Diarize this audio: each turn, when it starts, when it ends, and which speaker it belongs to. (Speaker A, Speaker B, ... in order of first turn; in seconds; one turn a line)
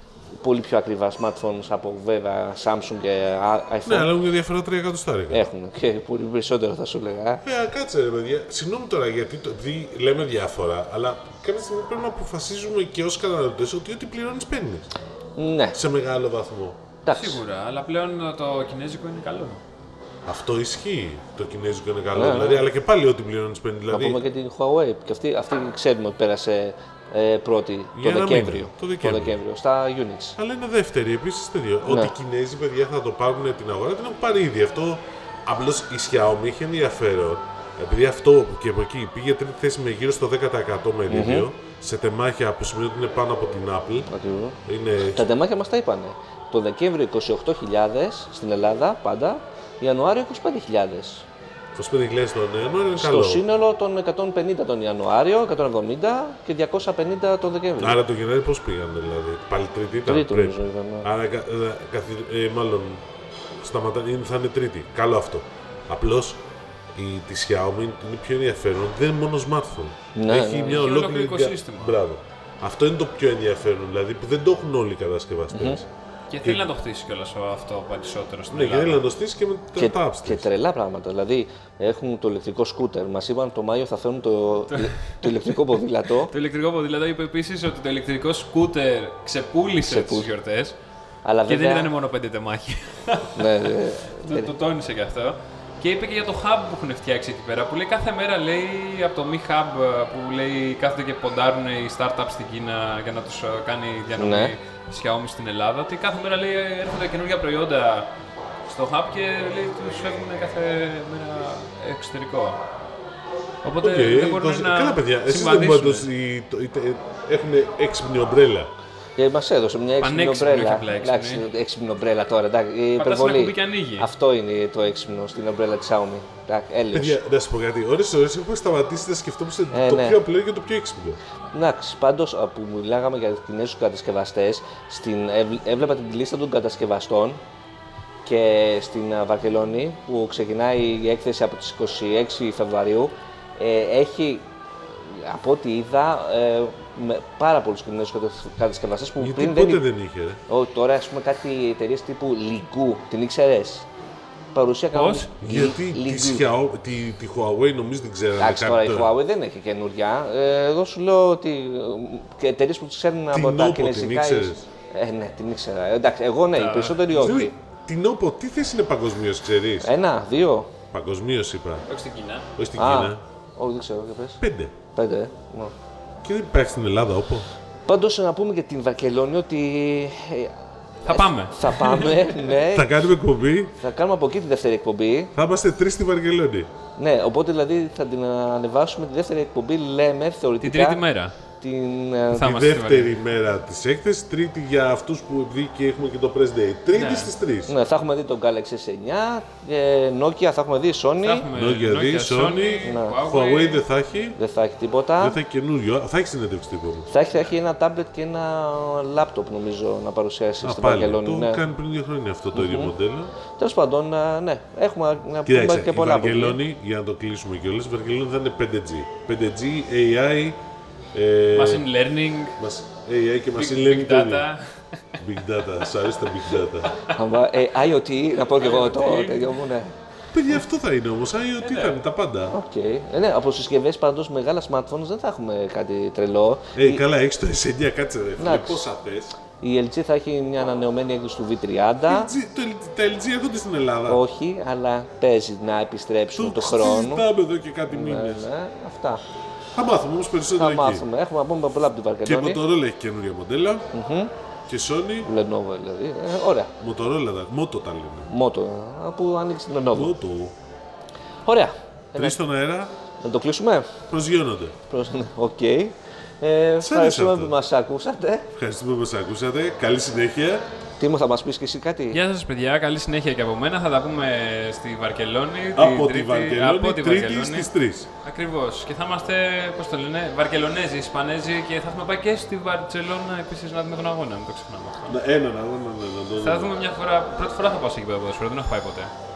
Speaker A: 0.4-4.1
Speaker B: 3.9-5.4
Speaker A: 5.3-7.4
Speaker B: 7.4-14.9
Speaker A: 15.4-15.8
Speaker B: 15.7-16.8
Speaker A: 17.0-17.4
Speaker C: 17.1-19.6
Speaker B: 20.2-24.2
Speaker A: 22.1-22.6
Speaker A: 23.9-30.4
Speaker B: 27.9-29.4
Speaker B: 30.4-44.1
Speaker A: 31.9-32.1
Speaker A: 41.1-41.5
Speaker A: 44.1-44.6
Speaker B: 44.6-45.3
Speaker A: 45.1-51.2
Speaker B: 51.7-53.4
Speaker A: 53.0-58.0
Speaker B: 57.8-63.0
Speaker A: 60.0-61.1
Speaker B: 63.6-66.4
Speaker B: 66.9-75.9
Speaker A: 70.1-70.8
Speaker C: 70.6-72.0
Speaker A: 75.5-75.8
Speaker C: 76.3-79.0
Speaker B: 78.5-80.5
Speaker A: 79.8-86.3
Speaker C: 84.7-85.6
Speaker C: 86.3-90.8
Speaker A: 89.8-90.3
Speaker A: 91.2-91.9
Speaker C: 91.5-108.1
Speaker A: 93.3-94.5
Speaker A: 104.2-104.5
Speaker C: 108.7-112.6
Speaker C: 113.6-116.1
Speaker B: 113.8-118.7
Speaker A: 119.2-127.2
Speaker C: 120.0-121.4
Speaker C: 123.0-124.1
Speaker B: 126.9-131.2
Speaker A: 129.7-130.2
Speaker A: 131.5-137.4
Speaker A: 138.2-144.4
Speaker A: 145.0-149.8
Speaker B: 149.2-150.4
Speaker A: 150.5-153.9
Speaker A: 154.5-156.4
Speaker C: 154.9-155.3
Speaker B: 155.4-159.1
Speaker A: 158.4-167.5
Speaker B: 163.3-164.7
Speaker C: 166.6-167.3
Speaker B: 167.1-169.9
Speaker A: 169.8-170.7
Speaker B: 170.9-171.8
Speaker C: 171.9-172.5
Speaker B: 172.6-173.2
Speaker A: 172.8-174.4
Speaker B: 174.4-174.7
Speaker A: 174.9-175.7
Speaker B: 176.2-177.5
Speaker A: 177.9-180.5
Speaker C: 181.1-182.4
Speaker A: 181.1-183.0
Speaker B: 182.7-183.7
Speaker A: 183.8-185.3
Speaker B: 185.3-186.7
Speaker A: 187.0-191.0
Speaker C: 190.6-191.3
Speaker A: 191.6-192.5
Speaker C: 192.3-193.1
Speaker B: 192.4-197.7
Speaker C: 196.9-197.3
Speaker A: 197.7-201.5
Speaker C: 201.2-203.8
Speaker B: 201.5-204.4
Speaker A: 202.8-203.2
Speaker A: 204.3-205.4
Speaker B: 205.2-207.1
Speaker A: 207.1-211.6
Speaker B: 210.6-213.3
Speaker A: 212.5-212.9
Speaker A: 213.6-216.6
Speaker B: 215.4-220.6
Speaker B: 221.1-221.9
Speaker C: 221.5-222.6
Speaker B: 222.6-224.5
Speaker C: 223.5-225.2
Speaker B: 225.2-226.9
Speaker A: 227.0-229.9
Speaker C: 228.5-229.6
Speaker B: 230.3-232.6
Speaker C: 231.6-231.9
Speaker A: 232.5-237.0
Speaker B: 236.7-239.3
Speaker A: 238.4-238.9
Speaker A: 239.6-242.3
Speaker B: 242.1-244.2
Speaker A: 244.1-247.2
Speaker B: 246.3-248.5
Speaker A: 247.9-249.2
Speaker B: 249.7-251.0
Speaker A: 250.6-252.6
Speaker B: 252.2-253.9
Speaker A: 253.9-254.3
Speaker B: 254.7-255.3
Speaker A: 255.2-256.7
Speaker B: 256.8-258.3
Speaker A: 258.3-260.1
Speaker B: 259.9-260.6
Speaker A: 261.4-262.4
Speaker B: 262.1-262.9
Speaker A: 263.2-263.9
Speaker B: 264.1-264.7
Speaker A: 264.9-268.5
Speaker B: 266.8-267.5
Speaker B: 268.5-270.6
Speaker A: 271.0-272.2
Speaker C: 272.1-277.7
Speaker B: 275.8-278.1
Speaker C: 278.2-285.1
Speaker B: 285.1-286.7
Speaker C: 286.4-289.1